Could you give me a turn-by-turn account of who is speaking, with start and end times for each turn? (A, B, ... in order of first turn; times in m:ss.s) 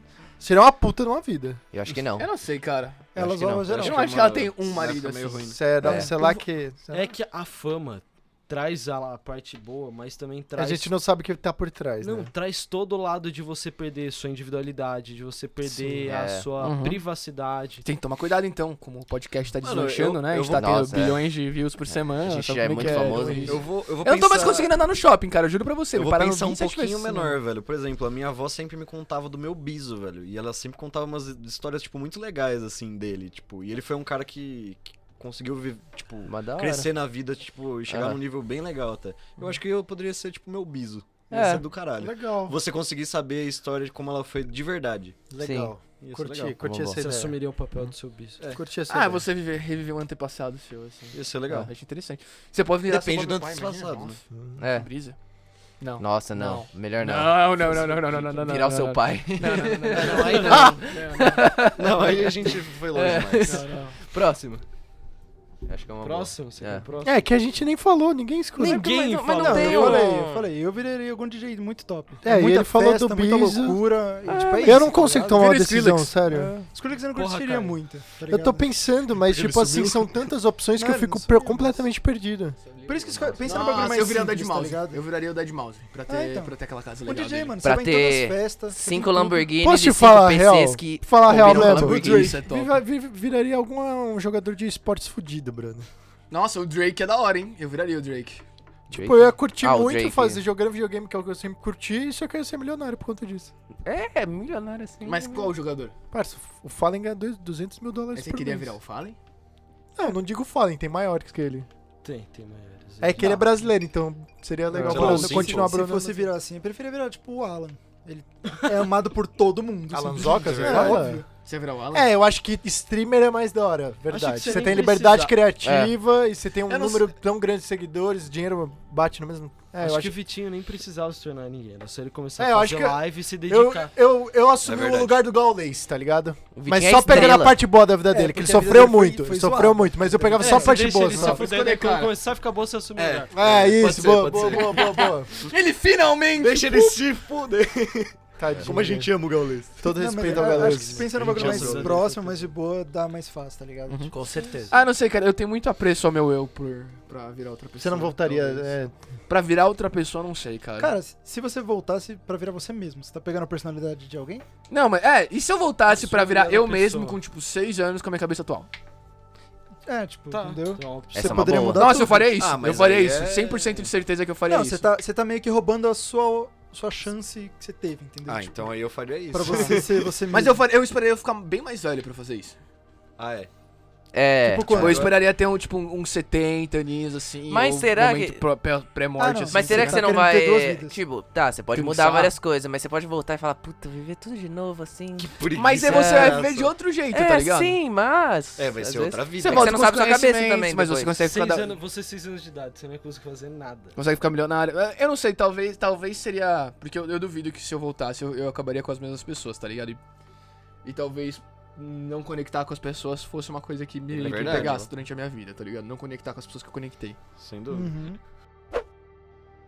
0:00.4-0:01.6 A
0:01.7-0:02.3 B
0:02.2-0:03.1 C
0:03.1-0:04.2 D
0:03.2-0:03.8 B
0:03.6-0:05.7 E
0:03.8-0:06.4 C
0:05.5-0:07.1 A
0:05.8-0:06.1 B
0:06.9-0:10.9 F
0:10.6-0:12.3 A
0:12.0-0:17.8 F
0:16.0-0:16.5 B
0:16.6-0:17.0 C
0:17.8-0:27.3 C
0:19.6-0:21.1 E
0:20.5-0:21.2 B
0:22.0-0:23.6 B
0:23.1-0:24.7 E
0:25.9-0:45.2 E
0:36.2-0:36.9 B
0:37.9-0:38.2 B
0:41.3-0:41.7 B
0:42.0-0:42.6 A
0:45.3-0:47.4 A
0:45.4-0:45.8 B
0:46.0-0:48.4 F
0:46.6-0:47.0 B
0:48.5-0:49.3 A
0:48.9-0:54.2 C
0:51.1-0:51.7 E
0:52.9-0:54.2 E
0:54.3-0:54.6 A
0:54.6-0:54.9 B
0:54.7-0:55.2 C
0:55.7-1:01.4 C
0:56.0-1:04.6 B
0:59.9-1:00.8 F
1:01.8-1:03.6 E
1:03.4-1:04.0 C
1:05.6-1:06.8 B
1:06.0-1:07.2 F
1:07.0-1:10.2 A
1:08.6-1:10.0 F
1:08.6-1:10.5 B
1:09.4-1:15.5 D
1:12.2-1:13.8 A
1:14.3-1:14.7 B
1:14.6-1:16.5 A
1:15.3-1:16.3 C
1:16.3-1:18.7 D
1:17.1-1:17.8 F
1:18.2-1:22.6 A
1:19.3-1:19.9 F
1:20.7-1:21.8 D
1:22.6-1:27.6 C
1:22.8-1:25.0 D
1:26.1-1:29.5 D
1:27.6-1:32.3 B
1:29.6-1:35.9 A
1:31.2-1:32.8 C
1:36.3-1:38.4 C
1:38.9-1:40.4 B
1:38.9-1:43.5 A
1:43.8-1:45.5 B
1:45.0-1:45.9 C
1:46.1-1:48.7 A
1:48.1-1:49.2 C
1:50.0-1:51.7 A
1:52.0-1:53.4 F
1:53.0-1:56.3 A
1:54.8-2:01.2 D
1:54.9-1:55.5 E
1:54.9-1:55.6 F
1:54.9-1:55.2 C
1:59.9-2:01.2 A
2:00.3-2:01.0 E
2:01.4-2:02.1 C
2:01.9-2:10.1 A
2:04.1-2:05.3 F
2:04.4-2:04.9 C
2:05.6-2:05.9 B
2:06.7-2:07.1 C
2:09.8-2:13.9 F
2:12.4-2:21.4 A
2:14.6-2:15.2 E
2:16.5-2:17.6 B
2:17.1-2:17.4 D
2:18.0-2:20.8 D
2:20.4-2:24.6 F
2:21.0-2:22.1 C
2:23.0-2:25.5 E
2:23.3-2:25.3 A
2:24.7-2:27.0 C
2:26.4-2:29.9 E
2:28.4-2:29.2 A
2:29.8-2:31.6 A
2:29.9-2:34.1 D
2:30.4-2:32.5 F
2:31.1-2:31.9 E
2:34.2-2:34.6 B
2:34.7-2:38.8 C
2:37.8-2:38.9 A
2:39.3-2:41.0 C
2:40.8-2:44.4 D
2:44.7-2:48.7 C
2:45.9-2:47.2 F
2:49.8-2:52.4 D
2:50.3-2:51.6 F
2:51.1-2:52.0 B
2:51.7-2:54.8 C
2:52.3-2:53.9 E
2:54.4-2:58.7 D
2:58.3-3:00.1 E
2:59.3-3:00.6 D
3:00.3-3:02.6 C
3:03.2-3:03.5 E
3:04.1-3:04.9 B
3:04.4-3:05.1 D
3:04.7-3:05.2 E
3:04.7-3:10.2 C
3:07.5-3:08.4 B
3:09.2-3:11.0 D
3:09.5-3:16.4 B
3:11.7-3:12.3 C
3:15.2-3:16.7 E
3:15.5-3:17.8 C
3:17.1-3:21.2 B
3:18.6-3:19.8 E
3:19.4-3:21.7 C
3:21.2-3:24.0 F
3:24.0-3:30.0 C
3:30.8-3:37.2 C
3:34.1-3:34.9 E
3:37.4-3:38.0 E
3:37.7-3:38.2 D